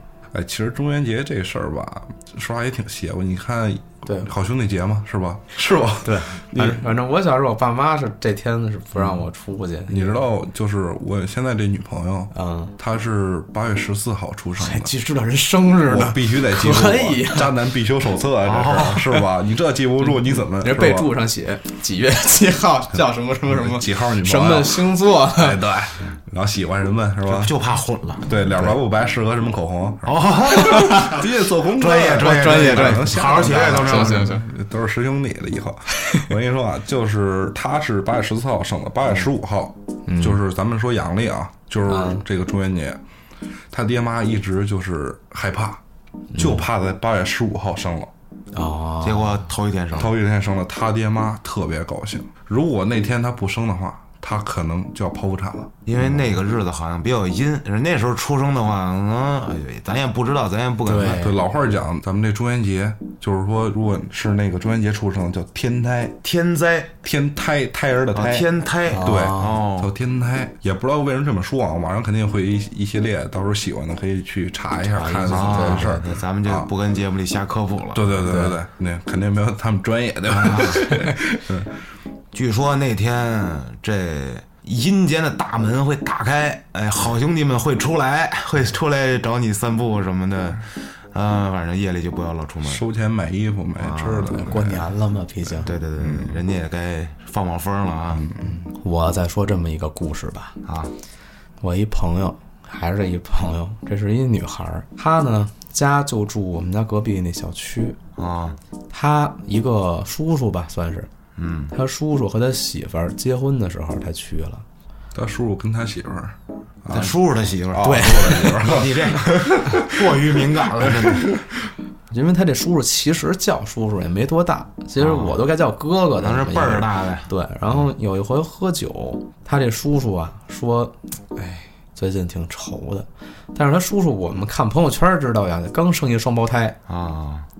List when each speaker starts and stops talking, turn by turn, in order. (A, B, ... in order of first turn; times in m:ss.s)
0:00.3-0:06.8 A
0:04.0-0:04.3 B
0:06.0-0:10.2 B
0:09.9-0:14.9 A
0:12.3-0:12.7 B
0:14.6-0:17.5 B
0:15.8-0:21.1 A
0:18.4-0:19.1 C
0:20.0-0:25.6 B
0:23.5-0:27.5 A
0:27.2-0:28.8 C
0:28.3-0:30.1 A
0:30.0-0:34.4 C
0:30.5-0:31.2 B
0:30.6-0:43.0 A
0:32.2-0:34.4 B
0:40.1-0:40.4 B
0:41.9-0:42.2 B
0:43.7-0:45.8 A
0:46.3-0:46.6 B
0:46.4-0:48.1 A
0:48.5-0:49.4 B
0:49.0-0:50.1 C
0:49.9-0:55.7 A
0:55.8-1:01.3 C
1:00.8-1:01.4 B
1:01.0-1:06.2 A
1:06.2-1:07.0 C
1:07.0-1:08.5 A
1:08.1-1:09.9 C
1:08.9-1:09.6 B
1:09.0-1:16.7 A
1:14.9-1:16.1 B
1:15.2-1:18.5 C
1:17.9-1:21.7 A
1:18.2-1:18.6 B
1:20.4-1:20.9 C
1:22.3-1:32.8 C
1:32.6-1:34.9 A
1:33.8-1:34.5 C
1:34.0-1:35.7 B
1:35.6-1:38.2 C
1:36.0-1:36.4 A
1:38.1-1:38.4 A
1:38.4-1:40.6 B
1:40.6-1:40.9 C
1:41.6-1:48.0 B
1:48.2-1:48.6 C
1:48.9-1:51.1 B
1:51.4-1:51.7 C
1:51.7-1:54.6 B
1:55.1-1:57.1 A
1:56.9-2:01.3 C
1:57.7-2:00.1 A
1:57.8-1:58.6 B
2:00.8-2:01.4 A
2:02.1-2:16.8 B
2:05.0-2:05.4 C
2:06.2-2:07.3 C
2:16.9-2:17.5 C